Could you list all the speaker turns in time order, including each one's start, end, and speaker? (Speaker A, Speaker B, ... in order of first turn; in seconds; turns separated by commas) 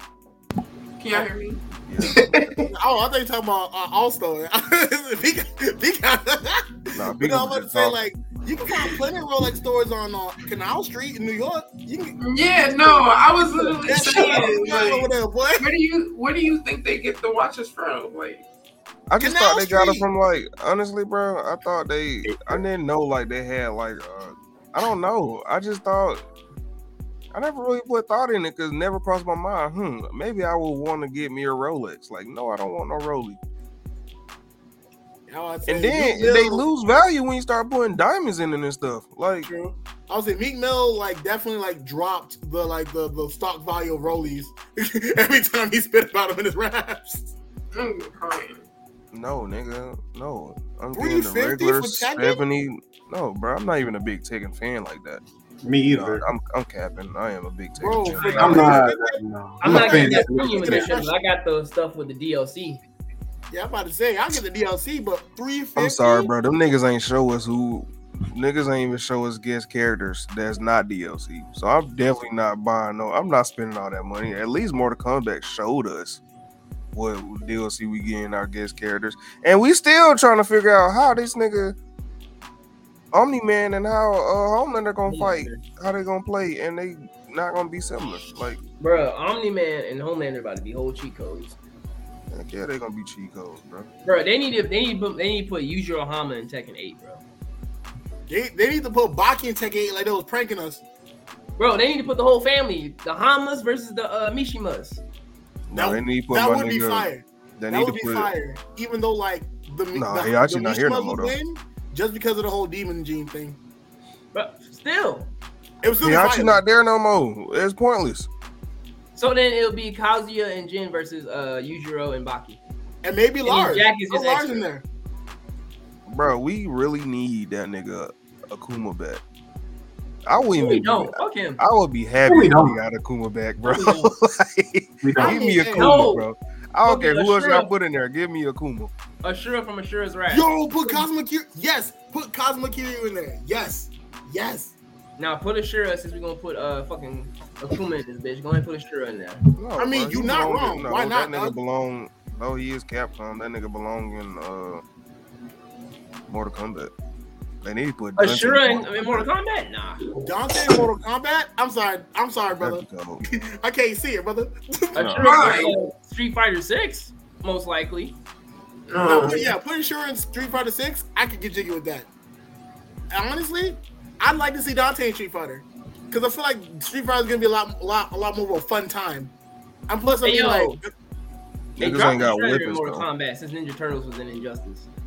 Speaker A: 1.0-1.6, Speaker B: 1.9-2.4, Speaker C: 2.0-2.7, Speaker D: 2.7-15.7, Speaker B: 6.9-8.0, Speaker A: 12.2-18.4, Speaker B: 19.1-26.2, Speaker D: 19.2-20.1, Speaker C: 22.2-22.6, Speaker B: 27.3-33.4, Speaker D: 35.3-36.6, Speaker B: 35.7-39.5, Speaker D: 39.4-47.3, Speaker A: 47.7-48.6, Speaker B: 49.1-55.2, Speaker D: 50.9-52.4, Speaker C: 55.6-56.2, Speaker B: 55.9-58.9, Speaker D: 57.8-61.1, Speaker E: 58.2-58.6, Speaker C: 58.4-60.9, Speaker E: 59.6-62.8, Speaker D: 63.5-66.3, Speaker B: 65.8-76.2, Speaker B: 76.9-81.8, Speaker B: 83.1-88.6, Speaker E: 85.1-85.6, Speaker E: 88.8-91.6, Speaker B: 92.3-93.9, Speaker E: 94.0-97.2, Speaker D: 98.3-100.8, Speaker E: 101.6-105.0, Speaker B: 105.7-108.3, Speaker D: 105.7-113.6, Speaker B: 109.9-111.3, Speaker E: 114.3-115.3, Speaker D: 115.8-116.6, Speaker B: 116.0-118.3, Speaker E: 119.1-122.6, Speaker D: 123.0-124.8, Speaker E: 123.4-124.7, Speaker B: 126.1-129.2, Speaker B: 130.2-138.9, Speaker E: 130.6-131.6, Speaker C: 132.2-132.8, Speaker E: 133.6-134.1, Speaker C: 135.0-135.4, Speaker D: 135.2-136.0, Speaker E: 135.8-136.2, Speaker E: 136.8-137.7, Speaker E: 139.2-141.0, Speaker D: 140.3-144.7, Speaker E: 145.2-149.4, Speaker B: 149.6-154.8, Speaker D: 149.8-151.6, Speaker B: 156.3-156.9, Speaker B: 157.6-159.2, Speaker E: 158.2-160.0, Speaker D: 160.2-165.1, Speaker B: 162.6-163.2, Speaker E: 164.9-168.2, Speaker B: 164.9-165.7, Speaker A: 165.2-165.8, Speaker A: 168.9-169.5, Speaker D: 169.0-172.1, Speaker D: 173.1-179.3, Speaker D: 179.9-180.9, Speaker E: 180.2-180.8, Speaker B: 181.8-183.1, Speaker E: 181.8-184.9